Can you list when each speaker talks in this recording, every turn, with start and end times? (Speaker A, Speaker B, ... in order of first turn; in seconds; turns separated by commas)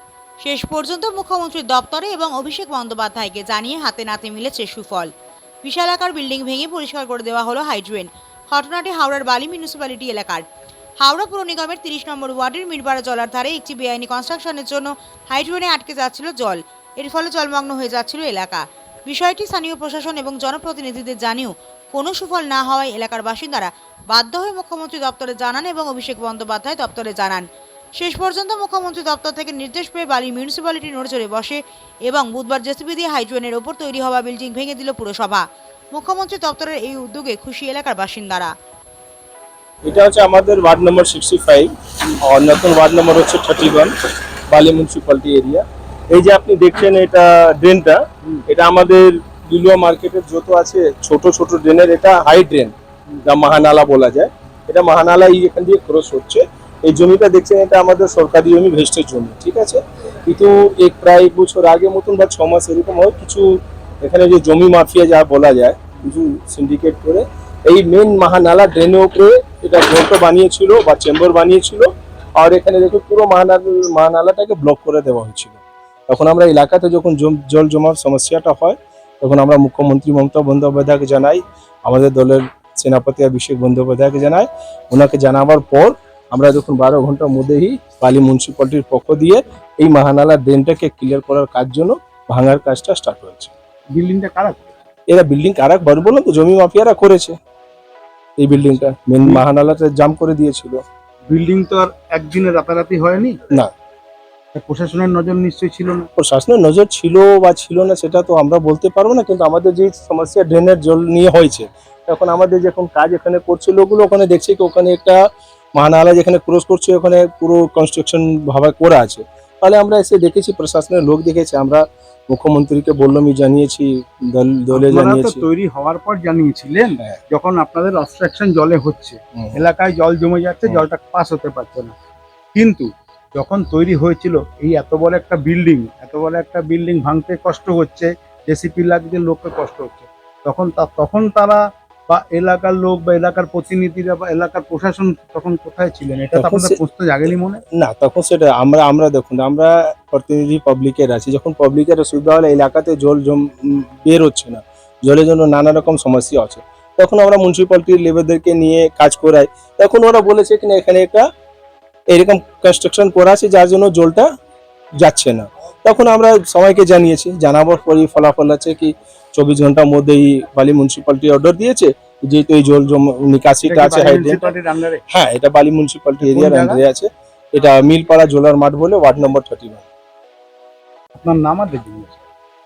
Speaker A: 0.4-5.1, Speaker A: 5.6-10.4, Speaker A: 11.0-27.5, Speaker A: 28.0-38.5, Speaker B: 39.9-43.9, Speaker B: 44.5-75.6, Speaker B: 76.1-93.5, Speaker C: 93.9-94.6, Speaker B: 95.1-97.3, Speaker B: 98.4-100.8, Speaker C: 101.3-103.4, Speaker C: 104.5-106.1, Speaker B: 106.2-115.2, Speaker B: 115.8-125.4, Speaker C: 124.7-131.9, Speaker C: 132.6-147.6, Speaker B: 146.3-146.8, Speaker B: 147.8-161.2, Speaker B: 162.1-164.3, Speaker B: 165.0-174.5, Speaker C: 173.7-175.0, Speaker B: 175.1-179.8, Speaker C: 176.2-176.8, Speaker C: 181.2-182.2